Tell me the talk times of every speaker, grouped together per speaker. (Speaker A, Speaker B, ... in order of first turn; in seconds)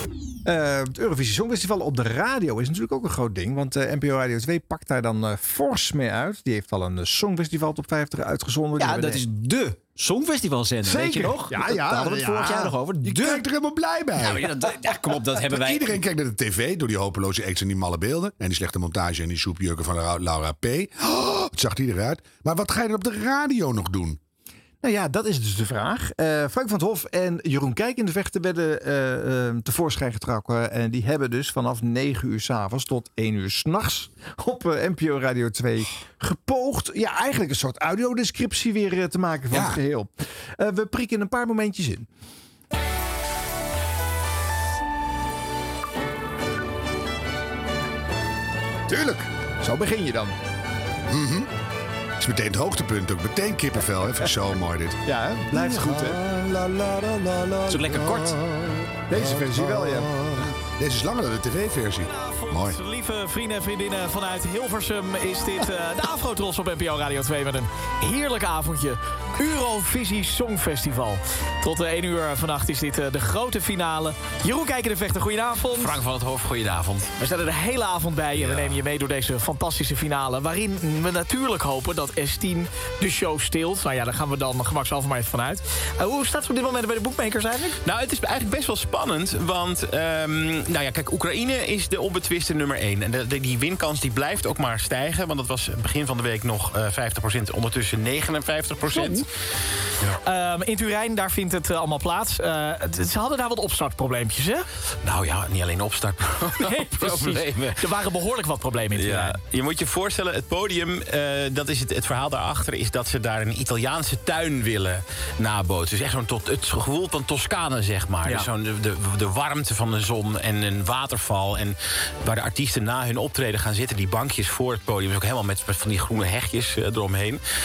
Speaker A: 0.5-9.3, 10.8-12.8, 24.8-42.1, 48.9-50.4, 55.0-56.3, 59.1-60.5
Speaker B: 8.8-13.5, 14.2-16.0, 57.7-58.4
Speaker C: 13.0-14.8, 15.4-24.2, 39.5-39.8, 51.1-51.5, 52.2-55.0, 55.5-62.8
Speaker D: 62.0-76.0, 77.2-87.8, 98.9-99.2, 100.2-104.7, 106.6-109.4, 118.2-118.5
Speaker E: 75.7-77.1, 78.3-78.8, 87.8-99.3, 105.0-107.8, 108.9-127.4